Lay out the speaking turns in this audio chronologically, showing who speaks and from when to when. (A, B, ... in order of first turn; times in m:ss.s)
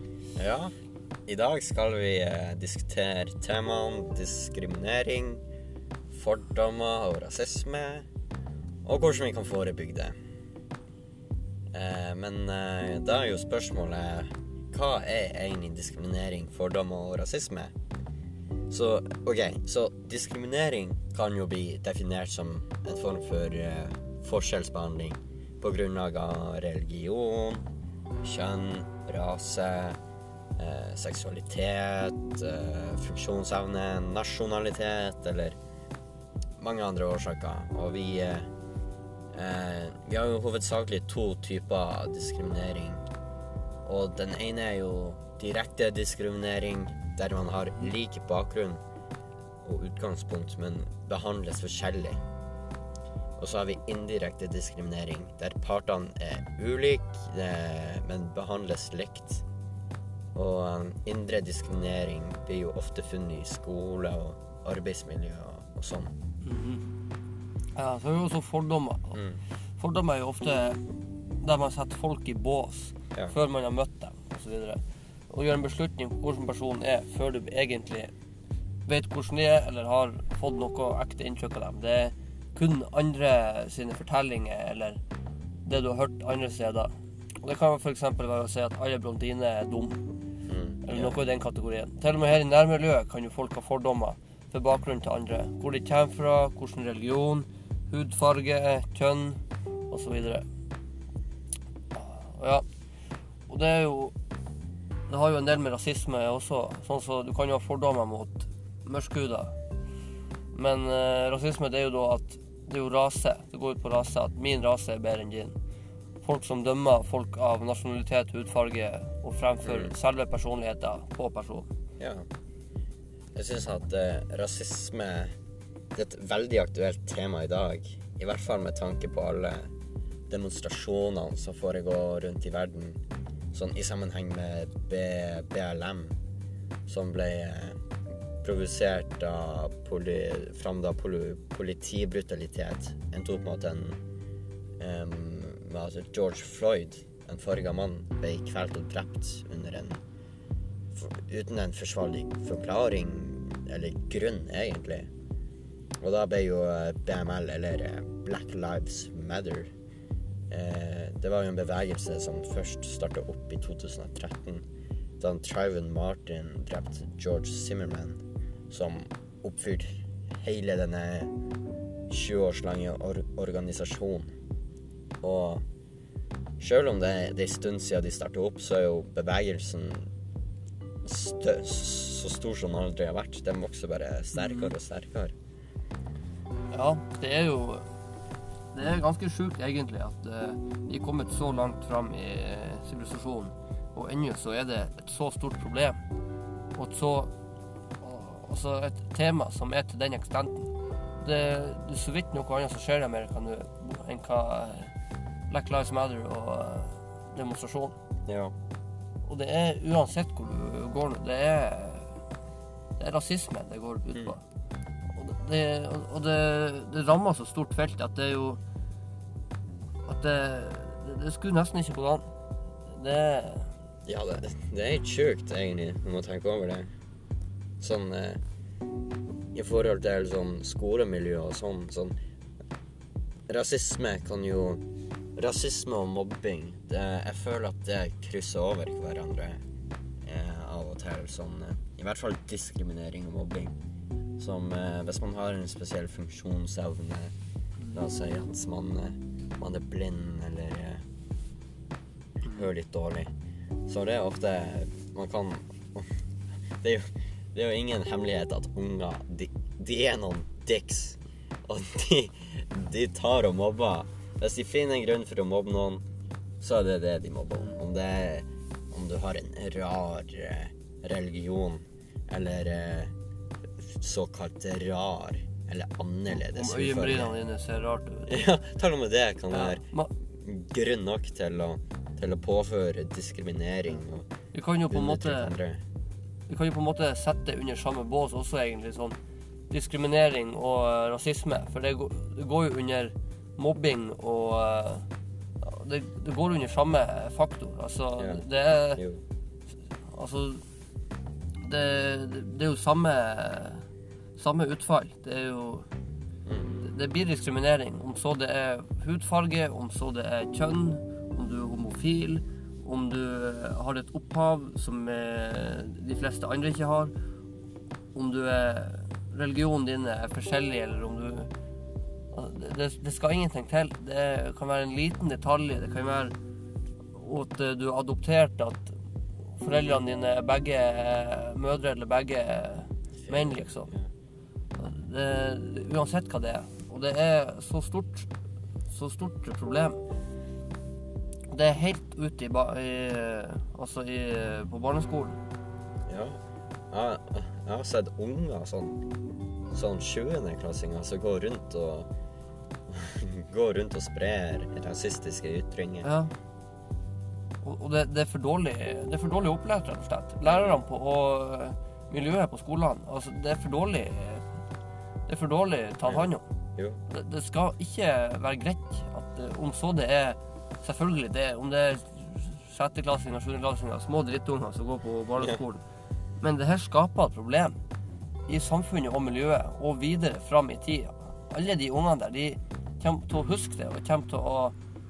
0:00.4-0:00.7 A
0:01.3-0:05.4 A
0:06.1-0:08.1 A
0:08.8-0:10.1 A
0:11.7-0:17.7 A
0:18.7-0:27.6 A
0:28.2-0:30.0 A
0:30.6-0:35.6 A
0:36.6-0:38.5 A
0:39.3-0:43.0 A
0:43.8-0:48.8 A
0:49.6-0:52.2 A
0:53.4-0:59.4 A
1:00.3-1:06.1 A
1:06.4-1:06.9 B
1:07.8-1:09.2 B
1:09.2-1:09.4 A
1:09.8-1:10.8 B
1:11.4-1:18.1 B
1:18.9-1:25.0 B
1:25.7-1:26.9 B
1:27.4-1:30.0 B
1:30.5-1:31.2 A
1:30.8-1:39.4 B
1:39.9-1:40.4 B
1:41.9-1:42.6 B
1:43.5-1:44.1 B
1:45.1-1:49.5 B
1:50.5-1:55.6 B
1:56.2-2:01.7 B
1:59.6-1:59.9 A
2:02.0-2:02.2 A
2:03.3-2:05.3 A
2:05.9-2:09.7 A
2:10.3-2:13.0 A
2:13.5-2:16.2 A
2:16.9-2:17.8 A
2:18.4-2:24.0 A
2:24.8-2:30.0 A
2:30.9-2:35.1 A
2:36.0-2:39.7 A
2:40.5-2:44.6 A
2:45.2-2:51.3 A
2:52.1-2:54.3 A
2:55.2-2:55.6 A
2:56.6-3:00.1 A
3:01.0-3:05.3 A
3:04.4-3:04.7 B
3:06.7-3:07.8 B
3:08.7-3:16.0 B
3:16.8-3:17.3 B
3:18.0-3:24.9 B
3:25.5-3:27.9 B
3:28.2-3:28.6 A
3:29.2-3:32.1 B
3:33.0-3:34.4 B
3:35.1-3:38.6 B
3:40.1-3:42.2 B
3:42.9-3:43.7 B
3:44.1-3:46.9 A
3:47.8-3:48.4 A
3:49.5-3:52.2 A
3:53.5-3:54.8 A
3:55.4-3:59.6 A
4:00.2-4:03.8 A
4:04.4-4:07.3 A
4:07.9-4:11.0 A
4:12.4-4:13.3 A
4:13.9-4:16.1 A
4:16.8-4:26.0 A
4:26.6-4:33.1 A
4:33.8-4:37.3 A
4:36.3-4:38.4 B
4:38.3-4:44.3 A
4:39.5-4:40.1 B
4:44.5-4:45.5 B
4:44.9-4:45.8 A
4:46.5-4:49.2 B
4:49.7-4:55.1 B
4:55.6-4:59.0 B
4:58.2-4:59.2 A
5:00.1-5:00.6 B
5:01.6-5:03.8 B
5:04.4-5:05.9 B
5:06.4-5:06.9 A
5:06.8-5:17.1 B
5:18.1-5:21.5 B
5:22.3-5:26.3 B
5:27.1-5:28.9 B
5:29.6-5:33.9 B
5:33.2-5:34.1 A
5:34.7-5:38.3 B
5:38.9-5:40.0 B
5:41.5-5:45.4 B
5:46.1-5:46.4 A
5:46.9-5:49.0 A
5:49.7-5:52.1 A
5:52.9-5:56.1 A
5:56.0-5:56.3 B
5:57.6-6:04.4 B
6:00.5-6:00.8 A
6:05.3-6:06.4 B
6:06.0-6:07.0 A
6:07.1-6:15.8 B
6:16.4-6:17.8 B
6:18.5-6:24.7 B